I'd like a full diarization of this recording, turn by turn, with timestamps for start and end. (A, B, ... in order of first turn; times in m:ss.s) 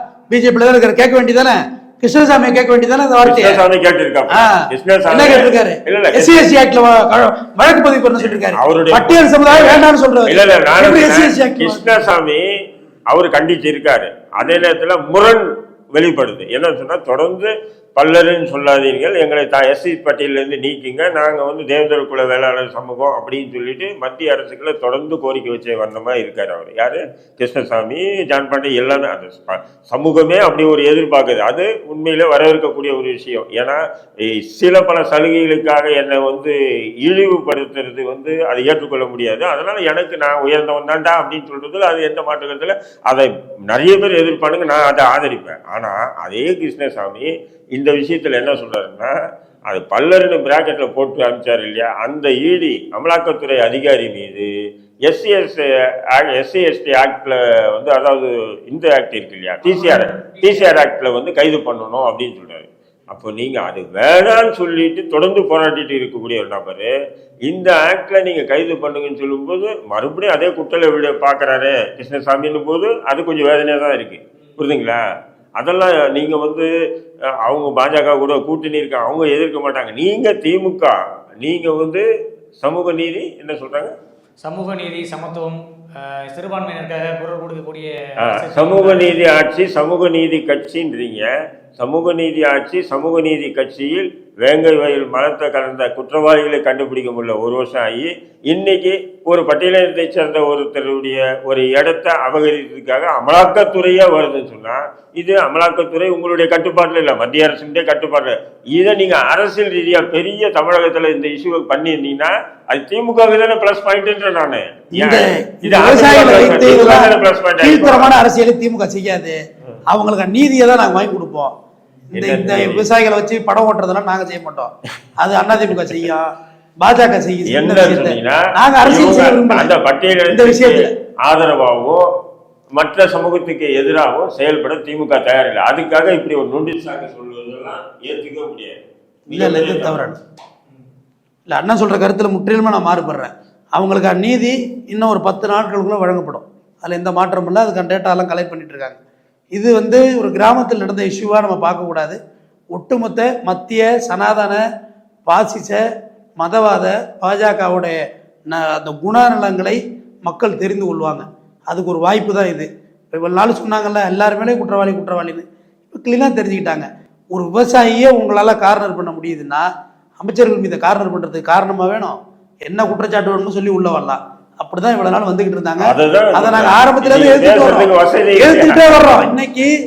0:00.3-0:03.6 A
0:03.2-0:06.4 B
0:04.3-0:11.8 A
0:08.2-0:12.5 B
0:13.1-0:49.2 B
0:49.7-0:54.5 B
0:55.1-1:15.0 B
0:59.6-1:00.7 C
1:15.6-1:16.7 B
1:17.3-1:22.0 B
1:22.6-1:24.0 B
1:24.4-1:29.1 C
1:28.2-1:58.2 B
1:55.0-2:01.5 A
2:02.1-2:06.3 A
2:02.2-2:02.9 B
2:06.8-2:09.7 A
2:07.5-2:12.0 B
2:10.3-2:10.9 A
2:12.7-2:20.1 B
2:19.3-2:20.2 A
2:21.5-2:29.0 A
2:29.6-2:32.2 A
2:32.7-2:34.6 A
2:35.3-2:35.8 A
2:36.4-2:38.0 A
2:38.5-2:49.7 A
2:50.2-2:59.7 A
2:55.8-2:59.3 B